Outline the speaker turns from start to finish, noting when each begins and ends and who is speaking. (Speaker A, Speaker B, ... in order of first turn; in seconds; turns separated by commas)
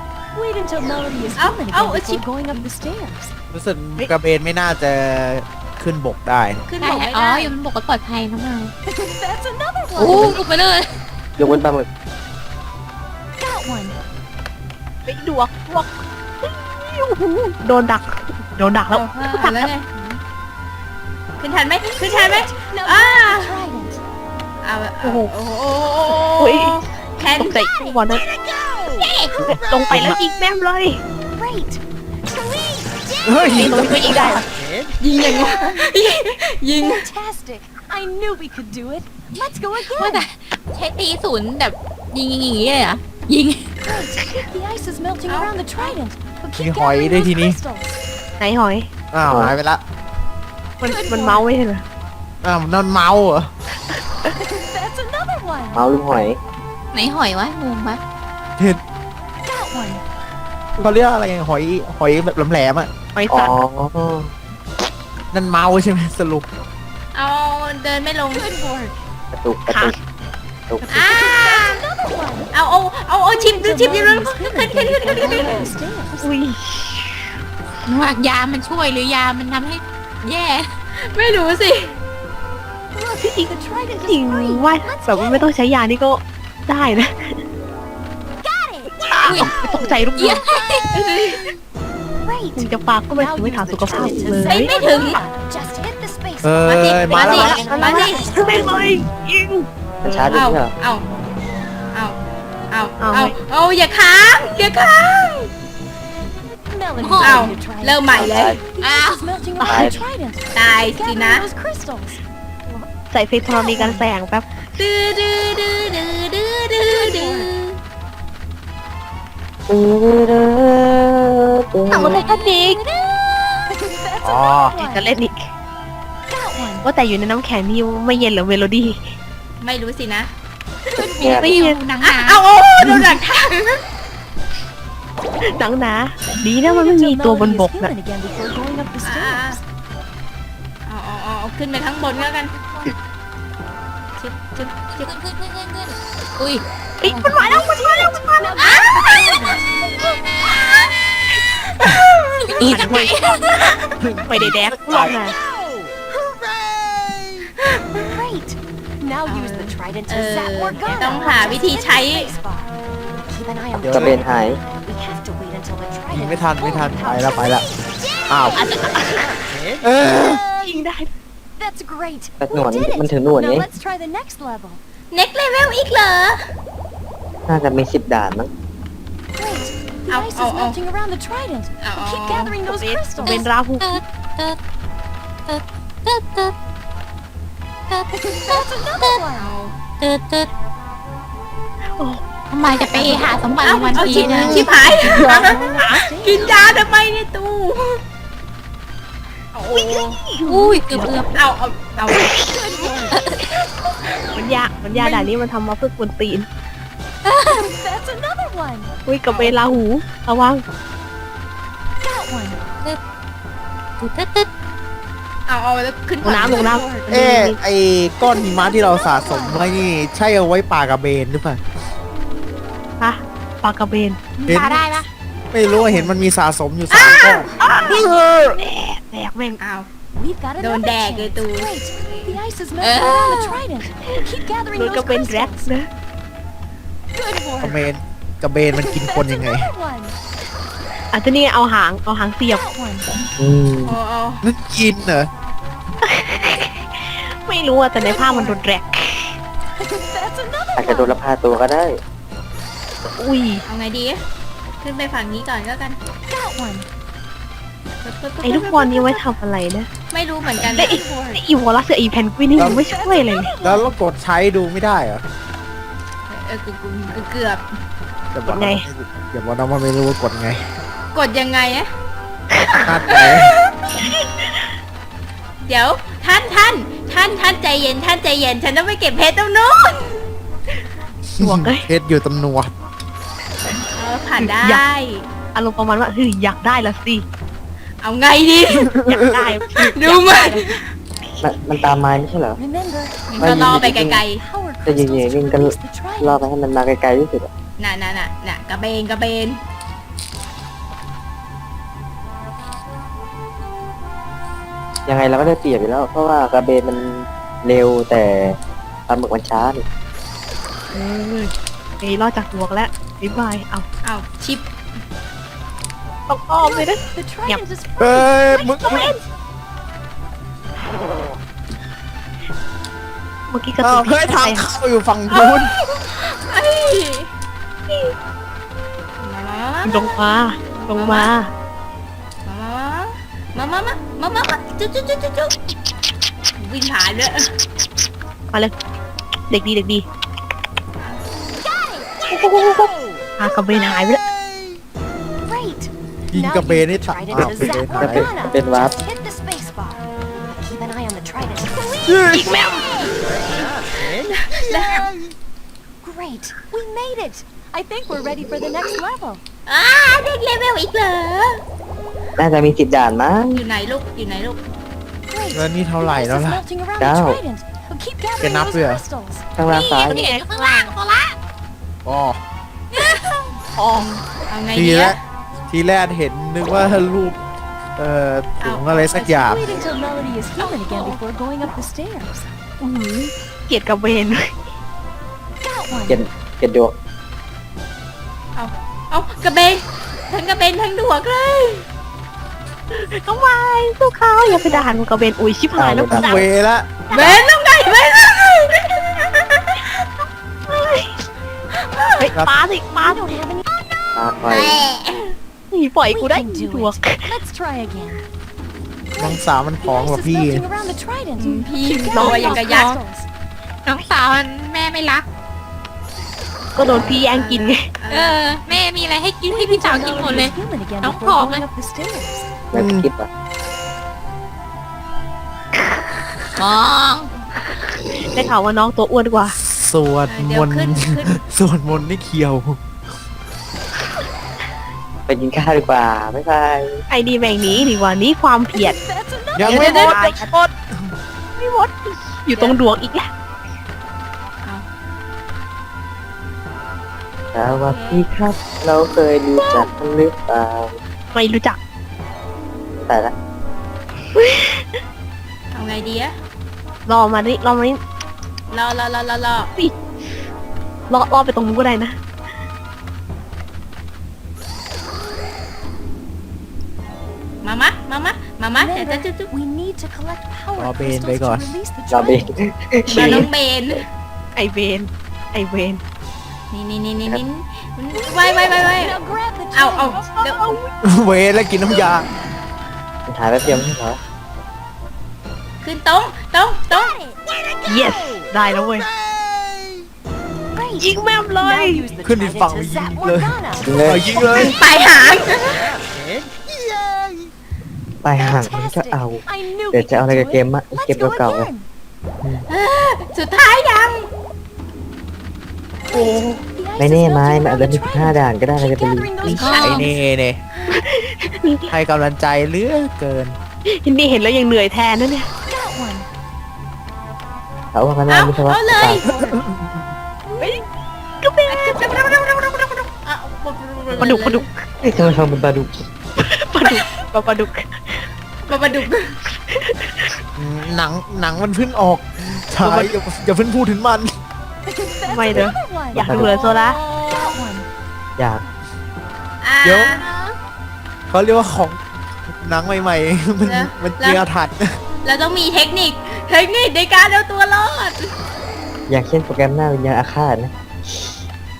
Speaker A: 0.3-3.3, Speaker B: 1.4-2.6, Speaker C: 3.5-6.7, Speaker B: 6.7-7.5, Speaker D: 6.8-8.7, Speaker A: 8.8-10.5, Speaker D: 9.9-10.9, Speaker E: 11.4-11.9, Speaker A: 13.4-13.9, Speaker F: 15.1-19.7, Speaker B: 18.9-19.9, Speaker B: 21.4-23.6, Speaker A: 21.8-24.0, Speaker B: 24.6-27.6, Speaker F: 25.0-25.3, Speaker F: 26.4-28.2, Speaker D: 29.0-29.3, Speaker F: 29.4-31.0, Speaker C: 29.9-30.2, Speaker A: 31.4-34.3, Speaker C: 33.2-34.5, Speaker F: 33.6-34.4, Speaker B: 35.0-37.0, Speaker A: 36.8-40.3, Speaker D: 39.9-43.7, Speaker A: 43.8-48.0, Speaker B: 45.3-46.0, Speaker C: 46.6-47.6, Speaker F: 48.4-48.9, Speaker C: 49.1-49.8, Speaker F: 50.8-51.8, Speaker A: 50.9-51.5, Speaker C: 52.4-53.5, Speaker A: 54.3-55.8, Speaker E: 55.7-56.4, Speaker D: 56.9-58.0, Speaker A: 59.4-60.0, Speaker C: 60.8-62.9, Speaker F: 63.1-63.5, Speaker E: 63.3-64.3, Speaker C: 65.3-66.5, Speaker B: 67.1-68.5, Speaker A: 68.4-68.9, Speaker E: 69.3-69.9, Speaker F: 69.7-69.9, Speaker A: 70.8-72.5, Speaker B: 70.9-71.8, Speaker B: 72.5-75.7, Speaker A: 73.4-76.3, Speaker F: 76.2-77.2, Speaker D: 77.8-80.7, Speaker B: 80.9-82.0, Speaker A: 82.9-85.5, Speaker F: 83.2-83.5, Speaker F: 84.0-87.4, Speaker A: 88.4-89.9, Speaker F: 89.1-90.4, Speaker D: 89.2-90.9, Speaker B: 90.9-91.5, Speaker A: 92.2-99.0, Speaker F: 92.6-94.7, Speaker B: 94.5-95.2, Speaker C: 96.4-97.7, Speaker B: 96.7-98.5, Speaker F: 97.2-100.2, Speaker E: 100.0-100.7, Speaker B: 100.3-101.0, Speaker B: 102.7-105.5, Speaker F: 103.0-103.3, Speaker A: 106.7-112.8, Speaker D: 107.0-107.5, Speaker B: 107.2-108.6, Speaker E: 108.1-108.6, Speaker D: 108.8-109.2, Speaker F: 109.6-109.9, Speaker E: 109.6-110.0, Speaker B: 110.5-111.5, Speaker F: 113.1-114.5, Speaker A: 113.5-114.1, Speaker B: 114.7-117.8, Speaker A: 116.9-117.5, Speaker E: 119.7-122.2, Speaker F: 121.9-122.8, Speaker B: 122.0-122.4, Speaker A: 122.2-123.1, Speaker A: 123.6-125.1, Speaker C: 124.2-124.7, Speaker F: 124.8-125.5, Speaker A: 126.3-126.9, Speaker F: 126.8-128.9, Speaker B: 129.6-130.3, Speaker E: 130.9-131.5, Speaker D: 131.0-132.4, Speaker F: 131.2-131.8, Speaker B: 132.0-133.8, Speaker F: 135.5-137.9, Speaker A: 136.6-139.6, Speaker B: 139.0-139.6, Speaker B: 140.9-142.5, Speaker A: 142.1-142.9, Speaker B: 144.2-145.1, Speaker D: 144.8-147.6, Speaker F: 147.0-149.3, Speaker A: 147.4-149.6, Speaker B: 148.6-149.1, Speaker D: 150.4-150.8, Speaker B: 151.8-153.9, Speaker D: 152.5-153.4, Speaker F: 152.6-153.5, Speaker C: 154.0-155.1, Speaker F: 154.3-155.3, Speaker A: 156.1-156.4, Speaker A: 157.9-168.8, Speaker B: 159.3-162.3, Speaker C: 163.8-164.2, Speaker E: 163.9-164.6, Speaker C: 166.1-167.6, Speaker C: 168.3-168.7, Speaker F: 168.6-169.3, Speaker C: 169.8-170.4, Speaker F: 170.6-171.1, Speaker A: 171.6-174.8, Speaker E: 172.4-173.7, Speaker B: 175.1-176.4, Speaker E: 177.5-178.5, Speaker A: 179.3-183.5, Speaker B: 180.1-180.8, Speaker B: 181.8-182.5, Speaker F: 182.6-183.9, Speaker D: 183.2-184.6, Speaker D: 185.5-186.5, Speaker D: 187.9-189.2, Speaker A: 188.1-189.5, Speaker B: 189.4-189.8, Speaker D: 190.0-190.5, Speaker D: 192.5-194.7, Speaker A: 193.1-196.9, Speaker B: 193.6-195.5, Speaker F: 195.1-196.1, Speaker B: 196.2-198.0, Speaker B: 199.5-200.2, Speaker F: 199.7-201.1, Speaker D: 200.4-201.4, Speaker B: 201.3-202.9, Speaker A: 202.2-203.2, Speaker D: 203.1-203.4, Speaker F: 204.3-206.5, Speaker D: 207.2-207.7, Speaker A: 207.5-208.9, Speaker F: 209.1-210.6, Speaker B: 209.3-209.6, Speaker A: 212.0-212.6, Speaker D: 214.0-214.5, Speaker B: 215.5-217.0, Speaker F: 216.2-217.6, Speaker C: 217.1-221.6, Speaker A: 218.2-219.6, Speaker F: 223.0-224.3, Speaker A: 224.4-224.8, Speaker C: 224.5-224.8, Speaker D: 224.5-225.1, Speaker C: 225.5-228.6, Speaker A: 225.8-226.2, Speaker B: 226.9-227.5, Speaker F: 227.6-229.6, Speaker B: 229.6-229.9, Speaker A: 230.1-235.7, Speaker B: 230.6-232.3, Speaker D: 232.8-233.6, Speaker F: 234.7-235.9, Speaker A: 237.1-237.8, Speaker C: 237.6-239.7, Speaker A: 238.7-240.1, Speaker F: 241.1-242.6, Speaker A: 242.4-243.1, Speaker E: 243.4-244.0, Speaker B: 243.8-244.4, Speaker C: 244.4-245.3, Speaker F: 246.0-249.3, Speaker B: 248.0-248.6, Speaker A: 249.8-251.2, Speaker E: 250.8-251.9, Speaker F: 253.2-253.6, Speaker B: 253.7-254.2, Speaker B: 254.8-256.0, Speaker A: 256.3-256.9, Speaker B: 258.0-259.2, Speaker F: 258.4-259.9, Speaker B: 260.1-261.4, Speaker F: 260.6-263.5, Speaker C: 262.6-262.8, Speaker A: 262.8-263.9, Speaker C: 263.6-265.2, Speaker B: 266.3-267.6, Speaker C: 268.3-270.6, Speaker F: 268.5-268.9, Speaker B: 271.1-271.9, Speaker F: 272.5-273.0, Speaker C: 272.8-273.5, Speaker B: 273.1-273.7, Speaker F: 274.0-274.6, Speaker B: 275.7-280.2, Speaker C: 281.4-282.7, Speaker F: 281.4-281.9, Speaker B: 283.9-285.2, Speaker F: 284.4-284.8, Speaker F: 285.5-287.2, Speaker B: 288.0-289.0, Speaker C: 288.8-289.3, Speaker F: 289.0-290.6, Speaker B: 289.7-290.8, Speaker E: 291.4-292.6, Speaker A: 292.6-296.5, Speaker B: 293.3-294.4, Speaker E: 293.4-294.2, Speaker E: 294.9-297.5, Speaker B: 297.8-299.6, Speaker E: 305.1-308.6, Speaker E: 309.1-309.8, Speaker F: 310.9-313.9, Speaker B: 314.0-314.6, Speaker F: 316.3-317.6, Speaker A: 316.6-319.2, Speaker C: 318.0-319.1, Speaker F: 318.8-319.1, Speaker F: 323.5-324.7, Speaker C: 323.8-325.7, Speaker B: 325.3-327.3, Speaker B: 329.2-330.1, Speaker F: 329.9-331.5, Speaker B: 330.9-331.3, Speaker B: 332.4-335.5, Speaker B: 336.6-337.5, Speaker F: 339.5-340.0, Speaker B: 341.0-341.5, Speaker A: 341.6-342.1, Speaker F: 342.3-344.2, Speaker A: 345.4-353.1, Speaker C: 346.3-348.3, Speaker E: 347.9-348.9, Speaker C: 352.1-352.6, Speaker F: 352.3-352.8, Speaker B: 354.0-355.1, Speaker A: 356.0-359.4, Speaker B: 359.7-361.6, Speaker E: 362.4-363.6, Speaker B: 363.5-364.6, Speaker A: 365.3-369.4, Speaker C: 365.5-366.6, Speaker E: 367.0-367.4, Speaker C: 368.4-369.0, Speaker E: 369.6-370.3, Speaker D: 369.7-371.4, Speaker F: 370.1-370.5, Speaker C: 372.1-372.4, Speaker B: 372.9-375.2, Speaker F: 373.8-374.2, Speaker C: 374.7-375.2, Speaker C: 375.7-377.4, Speaker C: 378.0-379.6, Speaker B: 378.6-379.6, Speaker A: 379.3-382.5, Speaker D: 380.9-381.2, Speaker F: 382.8-384.5, Speaker A: 385.6-386.2, Speaker E: 386.1-386.9, Speaker B: 388.6-391.9, Speaker F: 392.9-396.5, Speaker E: 395.8-396.4, Speaker C: 396.1-397.0, Speaker F: 397.1-397.4, Speaker B: 397.1-400.0, Speaker F: 400.6-401.2, Speaker B: 401.7-402.3, Speaker F: 402.2-403.2, Speaker A: 403.0-403.6, Speaker E: 404.1-404.8, Speaker B: 404.5-405.3, Speaker F: 405.7-407.3, Speaker A: 406.1-408.2, Speaker A: 409.1-413.3, Speaker C: 409.2-410.6, Speaker B: 411.4-412.9, Speaker F: 412.1-412.6, Speaker D: 412.2-413.0, Speaker D: 413.9-415.2, Speaker F: 416.8-417.9, Speaker B: 416.8-418.7, Speaker D: 418.1-421.6, Speaker A: 419.5-422.5, Speaker E: 422.7-423.3, Speaker C: 422.7-423.1, Speaker D: 426.6-427.3, Speaker F: 428.3-429.5, Speaker C: 429.6-432.8, Speaker B: 430.3-431.4, Speaker E: 435.3-437.0, Speaker F: 437.1-439.0, Speaker A: 438.7-440.1, Speaker C: 439.6-440.8, Speaker F: 439.6-440.5, Speaker F: 441.6-443.3, Speaker E: 447.5-451.0, Speaker B: 447.8-448.2, Speaker F: 449.6-449.9, Speaker F: 451.3-451.8, Speaker E: 452.9-453.3, Speaker F: 454.3-454.9, Speaker B: 455.7-456.3, Speaker F: 457.1-458.0, Speaker B: 458.7-459.7, Speaker F: 461.1-462.1, Speaker B: 467.6-469.5, Speaker A: 468.7-472.5, Speaker C: 470.8-471.7, Speaker E: 472.1-473.5, Speaker F: 473.1-473.5, Speaker B: 473.1-474.0, Speaker F: 474.6-476.0, Speaker B: 476.7-479.2, Speaker A: 478.2-480.3, Speaker B: 479.7-480.7, Speaker F: 480.1-480.9, Speaker C: 481.0-482.3, Speaker E: 483.3-484.2, Speaker B: 485.8-487.2, Speaker F: 487.9-489.1, Speaker A: 490.7-494.8, Speaker F: 491.0-492.1, Speaker C: 492.2-494.8, Speaker E: 493.9-494.2, Speaker B: 494.7-495.9, Speaker E: 498.2-501.7, Speaker A: 498.3-501.9, Speaker B: 502.7-504.3, Speaker A: 506.1-510.1, Speaker B: 506.1-506.6, Speaker E: 507.0-509.6, Speaker D: 509.5-510.1, Speaker B: 509.6-510.0, Speaker C: 509.8-510.6, Speaker F: 510.9-511.9, Speaker C: 511.9-513.5, Speaker F: 513.9-515.5, Speaker A: 515.6-516.3, Speaker E: 517.9-519.2, Speaker B: 518.3-519.5, Speaker C: 519.4-520.0, Speaker B: 520.5-520.8, Speaker F: 521.4-522.0, Speaker B: 521.7-524.6, Speaker F: 524.2-524.7, Speaker E: 525.0-526.0, Speaker F: 526.4-528.7, Speaker B: 528.7-529.4, Speaker F: 529.7-530.4, Speaker C: 530.6-534.3, Speaker F: 532.8-533.1, Speaker A: 534.9-536.5, Speaker F: 535.2-537.0, Speaker E: 535.5-536.5, Speaker B: 536.3-537.6, Speaker A: 537.3-537.9, Speaker E: 538.4-538.6, Speaker B: 539.6-540.2, Speaker C: 539.8-540.2, Speaker C: 541.3-542.0, Speaker C: 542.5-544.9, Speaker B: 543.6-544.4, Speaker B: 545.2-548.3, Speaker E: 549.1-551.4